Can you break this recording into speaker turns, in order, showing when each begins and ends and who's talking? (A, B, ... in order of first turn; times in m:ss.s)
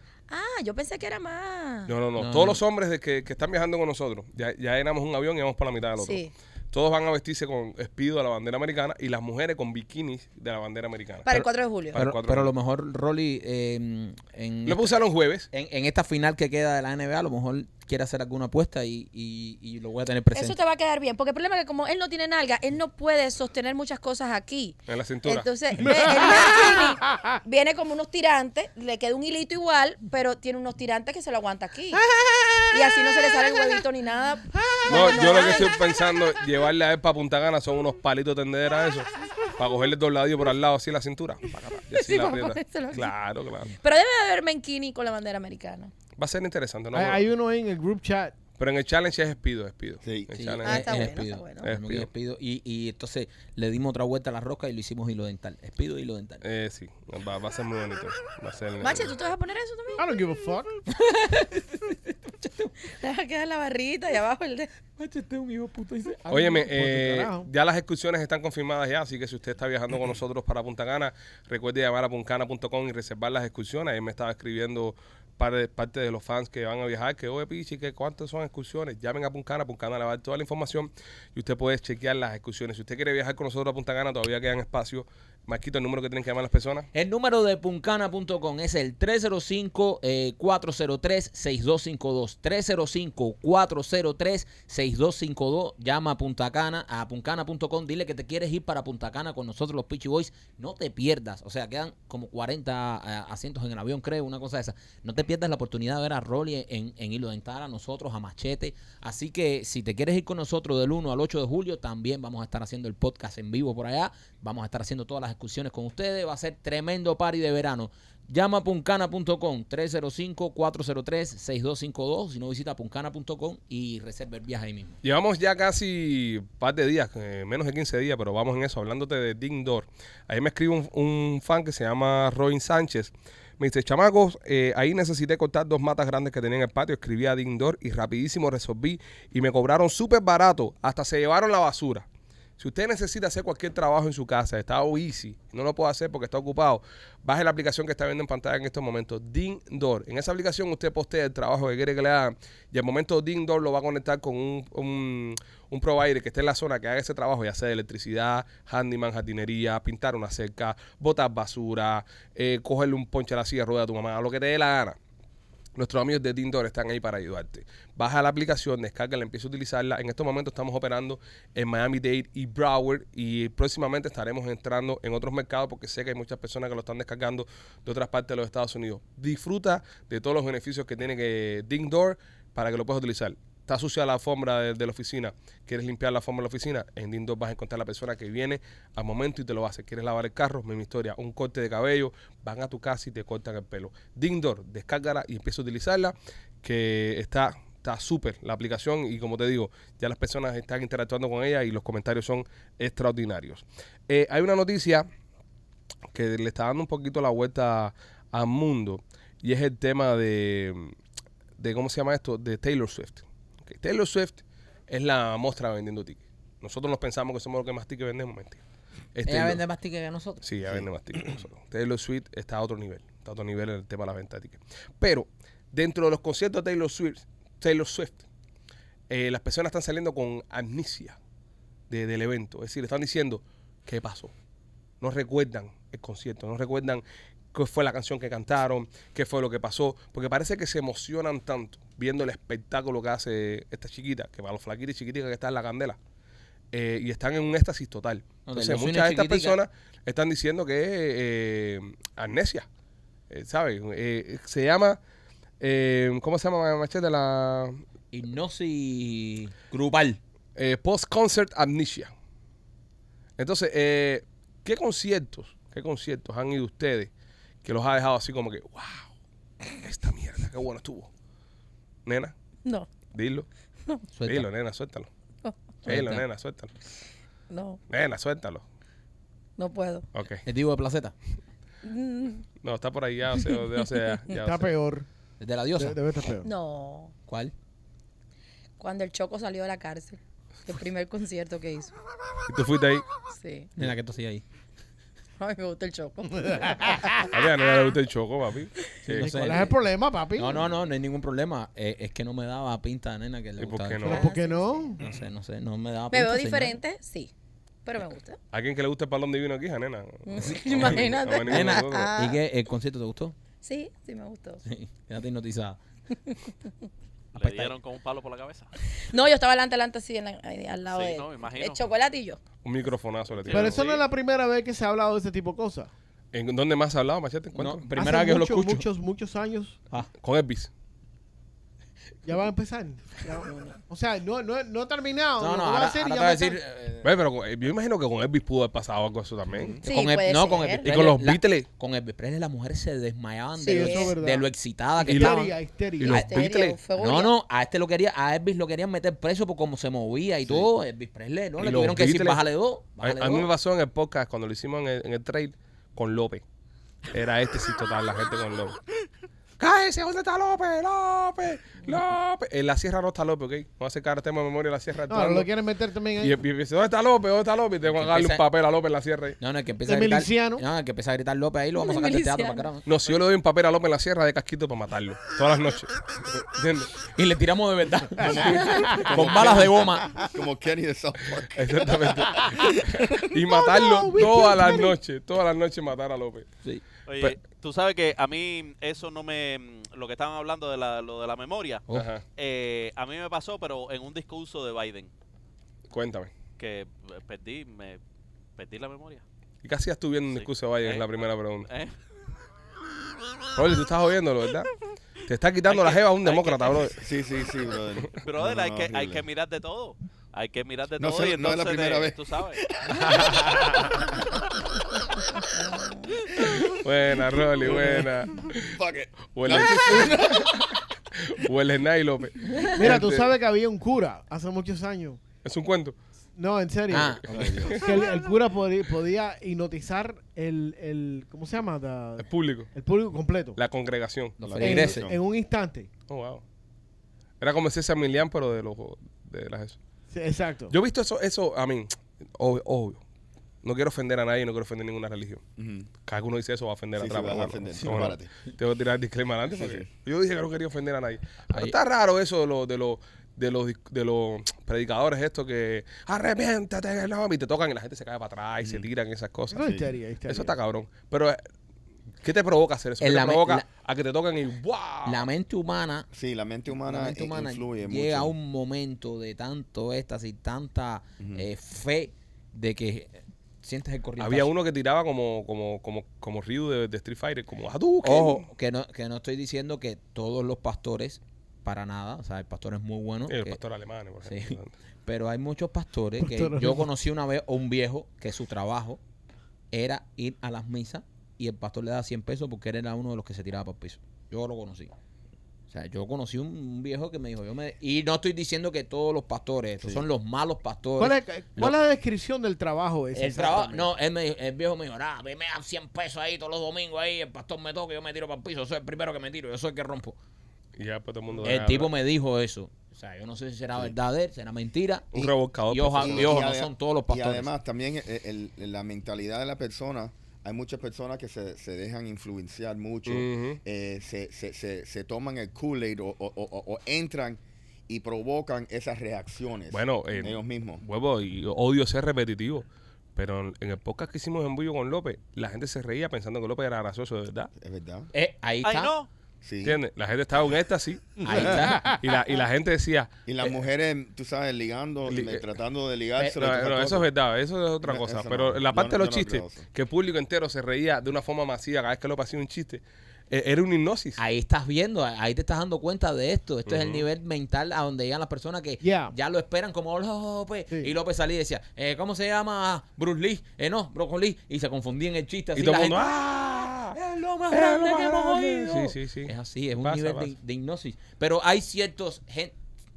0:00.3-0:01.9 A
0:01.9-0:11.2 B
0:02.2-0:02.6 C
0:06.0-0:06.3 A
0:11.2-0:12.0 A
0:11.3-0:20.6 C
0:11.9-0:12.5 B
0:14.7-0:15.5 B
0:20.3-0:32.0 A
0:24.9-0:25.5 B
0:25.8-0:27.3 D
0:31.9-0:33.6 D
0:32.7-0:35.8 A
0:34.5-0:35.3 D
0:34.9-0:43.7 B
0:41.9-0:43.1 A
0:43.8-0:45.9 A
0:46.2-0:47.3 B
0:46.9-0:48.4 D
0:48.6-0:51.0 B
0:50.0-0:50.3 E
0:50.3-0:56.4 C
0:50.6-0:51.7 A
0:51.6-0:52.1 B
0:56.4-0:59.1 B
0:58.8-1:00.1 A
1:00.0-1:00.8 D
1:00.9-1:02.7 C
1:02.8-1:04.7 A
1:05.0-1:06.2 C
1:06.2-1:07.5 D
1:06.3-1:26.9 B
1:26.9-2:05.0 C
2:05.0-2:22.0 B
2:22.6-2:45.0 B
2:45.8-3:25.0 B
3:26.1-3:30.9 B
3:31.6-3:38.6 B
3:39.1-3:39.6 B
3:39.3-3:40.4 C
3:40.4-3:48.2 B
3:49.1-3:51.2 B
3:51.9-3:54.3 B
3:55.0-3:57.0 B
3:57.5-4:06.0 B
4:06.7-4:12.6 B
4:08.4-4:09.6 C
4:13.3-4:15.0 B
4:15.6-4:17.8 B
4:18.1-4:20.2 C
4:20.6-4:22.1 B
4:23.4-4:27.1 B
4:27.6-4:29.1 B
4:29.7-4:31.1 B
4:32.0-4:32.3 B
4:33.1-4:33.5 B
4:34.1-4:34.5 C
4:34.2-4:35.1 B
4:35.8-4:36.2 C
4:35.8-4:36.7 B
4:37.5-4:37.8 A
4:37.9-4:38.6 B
4:39.6-4:40.0 A
4:40.1-4:40.4 B
4:40.4-4:41.1 C
4:41.8-4:42.4 A
4:42.6-4:44.7 B
4:44.3-4:45.1 D
4:45.4-4:46.0 C
4:45.8-4:46.5 D
4:46.4-4:47.1 A
4:47.3-4:47.5 C
4:48.8-4:51.9 A
4:52.5-4:53.0 B
4:53.3-4:53.7 A
4:53.8-4:54.4 C
4:55.4-4:57.2 A
4:56.6-4:57.2 D
4:57.3-4:59.6 B
4:59.1-4:59.7 C
4:59.1-5:00.6 D
5:00.4-5:04.2 C
5:03.6-5:04.2 B
5:04.0-5:05.0 D
5:04.0-5:05.0 A
5:05.0-5:06.8 C
5:06.1-5:07.3 A
5:07.8-5:08.4 A
5:08.5-5:12.1 B
5:10.2-5:12.4 A
5:10.7-5:13.3 C
5:13.6-5:14.6 A
5:14.6-5:15.8 C
5:17.3-5:18.7 F
5:17.4-5:17.7 C
5:19.0-5:22.4 A
5:20.9-5:21.8 F
5:22.6-5:24.0 B
5:23.4-5:24.0 F
5:23.5-5:25.9 D
5:26.3-5:27.9 B
5:27.5-5:28.8 C
5:27.9-5:29.8 D
5:30.2-5:30.7 B
5:32.2-5:36.6 D
5:35.4-5:37.1 C
5:37.0-5:39.8 B
5:39.5-5:39.8 E
5:39.8-5:45.6 C
5:39.8-5:40.9 A
5:40.8-5:41.6 B
5:43.6-5:44.1 A
5:43.6-5:44.5 D
5:45.0-5:46.3 D
5:45.0-5:45.4 B
5:46.0-5:46.8 B
5:46.0-5:47.3 A
5:47.0-5:53.5 C
5:51.6-5:52.4 B
5:53.0-5:56.4 B
5:57.1-5:58.8 B
5:59.6-6:05.5 B
6:05.1-6:06.4 D
6:06.2-6:09.4 B
6:07.8-6:08.4 C
6:09.4-6:12.9 C
6:09.8-6:10.6 D
6:11.8-6:12.7 A
6:12.8-6:17.0 B
6:17.1-6:20.1 C
6:18.2-6:23.2 E
6:18.5-6:19.2 D
6:21.5-6:26.5 B
6:23.6-6:25.0 D
6:27.1-6:35.1 F
6:31.9-6:32.2 B
6:35.9-6:36.3 B
6:36.6-6:38.0 F
6:38.6-6:39.2 F
6:39.6-6:41.7 B
6:40.3-6:41.9 F
6:43.5-6:44.7 B
6:45.3-6:47.0 B
6:45.6-6:47.0 F
6:47.0-6:49.2 E
6:48.2-6:52.6 F
6:51.0-6:54.0 E
6:55.7-6:56.0 A
6:56.4-6:56.7 E
6:56.5-6:58.8 B
6:57.6-6:58.0 E
6:58.6-7:00.6 E
6:59.3-7:00.7 B
7:01.2-7:03.3 B
7:02.7-7:05.2 D
7:05.4-7:06.0 B
7:06.4-7:13.6 D
7:06.9-7:07.7 C
7:07.3-7:08.0 E
7:07.6-7:08.0 B
7:12.2-7:12.7 B
7:13.6-7:14.4 B
7:14.4-7:15.1 C
7:14.4-7:15.2 E
7:14.6-7:15.9 D
7:16.1-7:16.4 B
7:17.4-7:19.8 B
7:20.1-7:20.7 D
7:20.7-7:23.0 B
7:23.6-7:25.4 B
7:25.6-7:25.9 E
7:26.0-7:39.7 B
7:27.0-7:28.3 E
7:29.5-7:29.9 E
7:39.5-7:40.5 D
7:40.3-7:41.4 B
7:42.2-7:45.2 B
7:43.0-7:43.6 C
7:45.0-7:46.1 C
7:46.1-7:48.3 E
7:46.8-7:54.5 C
7:51.2-7:51.5 E
7:54.2-7:58.4 B
7:58.0-8:03.6 C
8:03.3-8:04.7 B
8:04.2-8:09.0 C
8:06.2-8:06.8 D
8:09.7-8:14.9 C
8:15.7-8:21.8 C
8:21.0-8:23.9 D
8:23.1-8:30.2 C
8:30.8-8:31.9 B
8:31.4-8:37.5 C
8:35.1-8:36.4 B
8:36.0-8:50.8 E
8:43.1-8:43.6 B
8:49.7-8:57.5 B
8:57.6-8:58.1 E
8:58.1-8:58.9 C
8:58.6-8:59.1 F
8:59.4-8:59.8 E
8:59.6-9:03.1 B
9:01.2-9:02.0 C
9:01.6-9:02.0 D
9:03.2-9:07.1 E
9:05.1-9:05.4 B
9:06.3-9:14.2 B
9:07.8-9:09.6 E
9:14.2-9:32.5 C
9:16.7-9:17.0 B
9:18.8-9:19.1 D
9:25.6-9:27.0 B
9:27.5-9:30.3 B